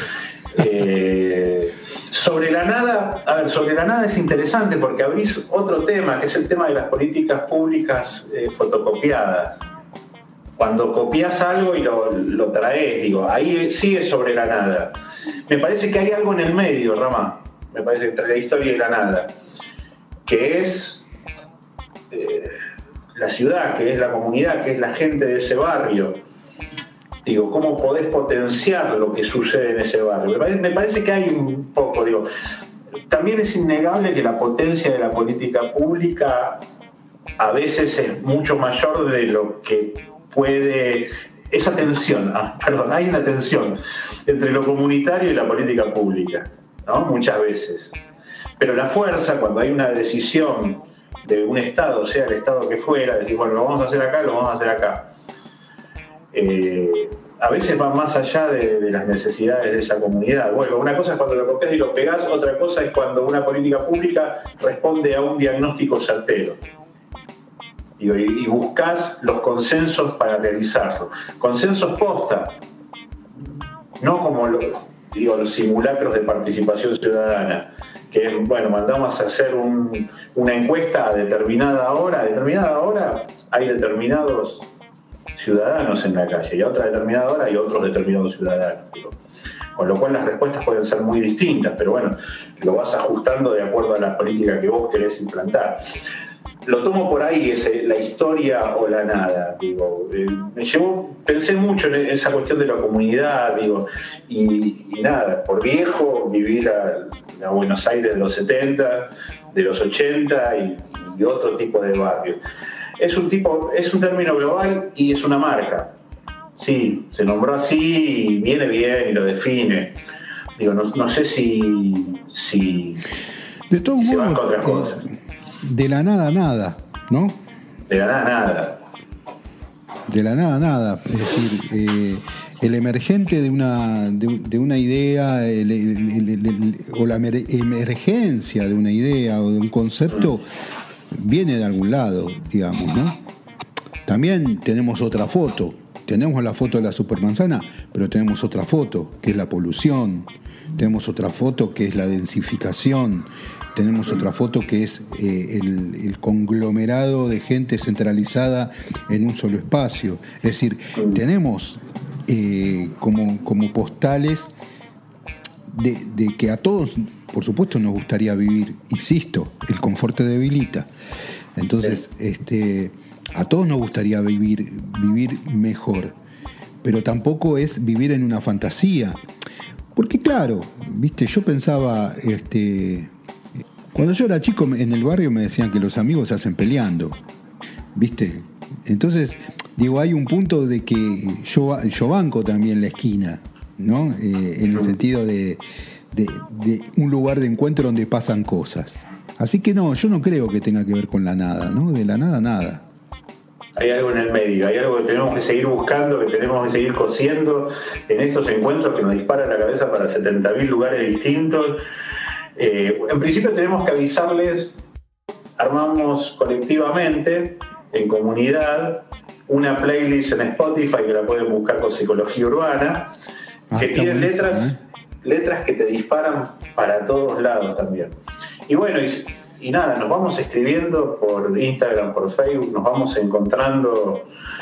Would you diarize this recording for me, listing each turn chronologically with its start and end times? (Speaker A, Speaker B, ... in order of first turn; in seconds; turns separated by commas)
Speaker A: 0.5-9.6, Speaker A: 10.6-14.9, Speaker A: 15.5-19.3, Speaker A: 20.2-21.1, Speaker A: 22.1-22.5, Speaker A: 23.1-26.2, Speaker A: 27.2-32.3, Speaker A: 33.1-36.6, Speaker A: 37.4-47.9, Speaker A: 48.6-55.1, Speaker A: 56.3-66.6, Speaker A: 68.0-72.6, Speaker A: 74.0-84.7, Speaker A: 85.4-89.2, Speaker A: 89.7-95.8, Speaker A: 96.6-112.4, Speaker A: 113.0-115.9, Speaker A: 116.6-120.0, Speaker A: 120.6-123.0, Speaker B: 123.7-125.0, Speaker A: 124.0-125.0, Speaker B: 125.6-127.4, Speaker A: 127.9-128.8, Speaker B: 130.1-140.5, Speaker B: 141.1-143.1, Speaker B: 144.1-164.5, Speaker B: 165.7-170.9, Speaker B: 171.6-176.1, Speaker B: 176.8-179.2, Speaker B: 179.9-183.1, Speaker B: 183.9-187.2, Speaker B: 187.9-202.8, Speaker A: 203.8-211.8, Speaker A: 212.6-214.7, Speaker A: 215.6-223.1, Speaker B: 223.7-224.8, Speaker A: 223.8-228.2, Speaker A: 228.7-234.3